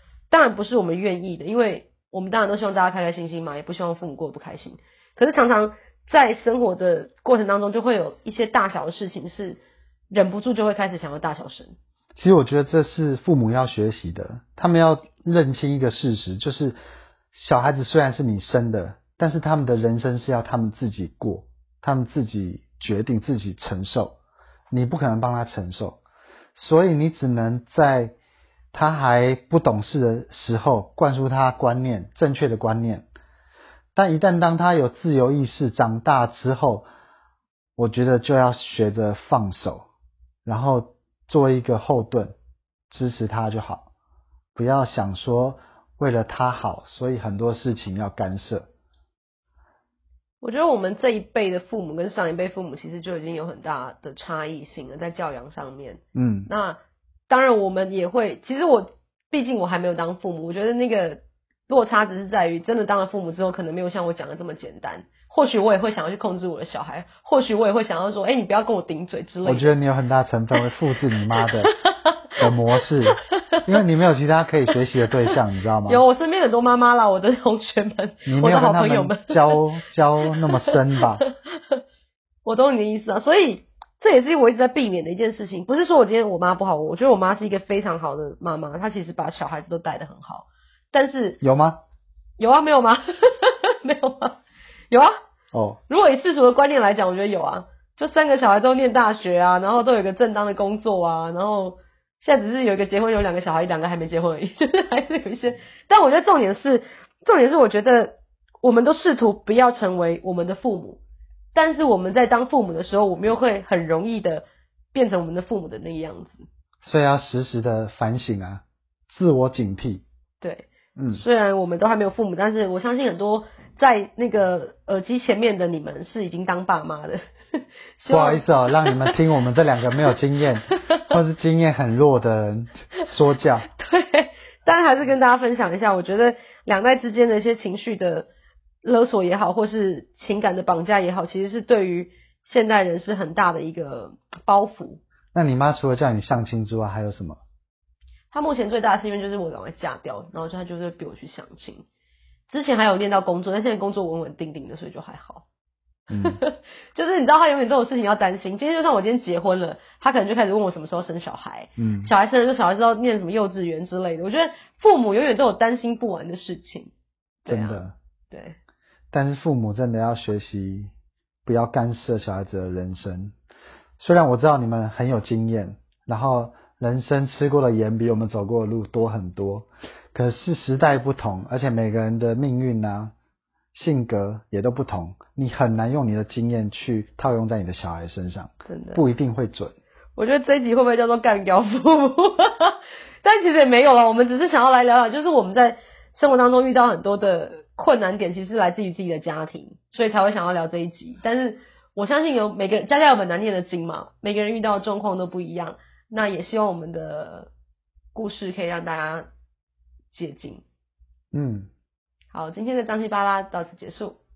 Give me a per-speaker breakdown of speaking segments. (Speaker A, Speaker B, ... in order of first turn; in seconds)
Speaker A: 0.3-9.6, 10.1-11.7, 50.4-69.7, 71.9-72.1, 75.8-79.6, 80.3-81.8, 82.4-91.4, 92.4-94.4, 95.9-111.0, 111.5-116.5, 120.4-129.2, 130.7-131.0, 133.7-138.3, 138.8-145.0, 148.3-151.8, 152.5-155.4, 156.2-166.9, 167.4-168.6, 188.7-189.0, 190.2-207.5, 208.1-209.3, 210.1-210.6, 212.3-214.2
Speaker B: 12.2-16.8, 17.3-24.2, 24.7-26.0, 26.5-28.1, 28.7-33.1, 33.9-36.9, 37.8-39.9, 40.5-42.3, 42.9-43.9, 44.5-48.7, 56.1-56.5, 69.4-71.7, 72.4-76.0, 78.2-81.2, 91.4-91.8, 95.5-95.8, 116.8-120.0, 121.0-121.2, 128.1-133.7, 145.3-147.4, 156.1-156.4, 161.8-162.1, 167.5-167.9, 169.1-170.9, 171.4-173.3, 174.0-183.1, 183.7-189.7, 211.3-211.7